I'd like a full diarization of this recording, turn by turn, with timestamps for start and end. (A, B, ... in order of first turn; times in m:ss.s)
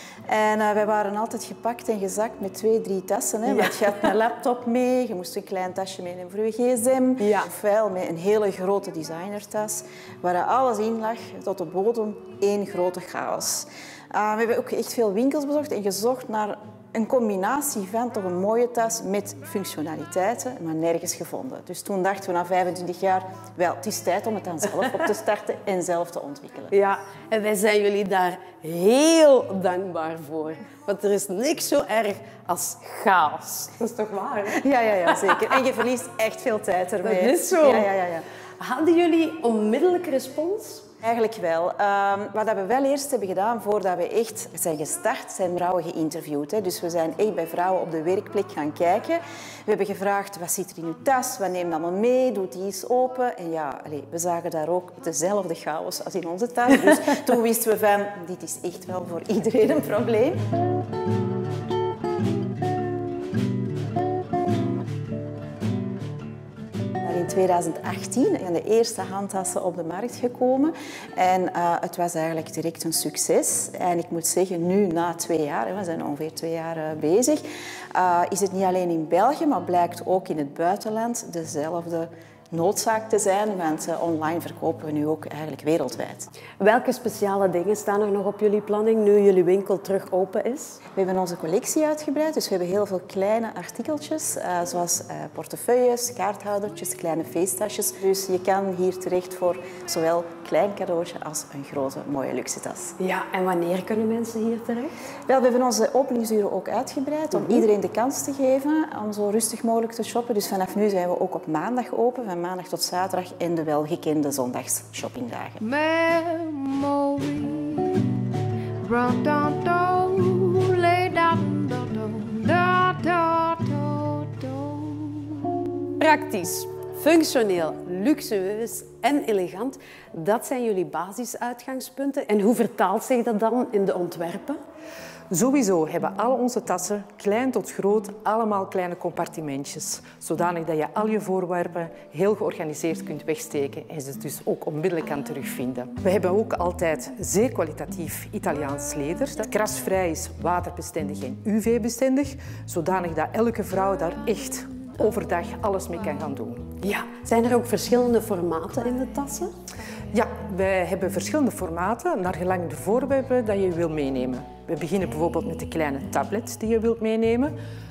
0:00.3-0:26.7 A
0:03.5-0:03.8 B
0:07.2-0:07.5 B
0:26.7-0:35.3 B
0:34.5-0:38.2 A
0:37.0-0:37.9 B
0:38.6-0:40.8 B
0:41.0-1:00.4 A
1:07.0-1:17.4 A
1:17.9-1:26.3 A
1:26.6-1:30.8 B
1:31.0-1:42.9 A
1:43.0-1:44.9 B
1:45.3-1:55.6 A
1:47.3-1:47.6 B
1:55.6-1:58.2 C
1:58.8-2:05.7 C
2:06.0-2:14.6 B
2:15.3-2:36.6 D
2:36.8-2:39.5 B
2:40.1-2:47.5 D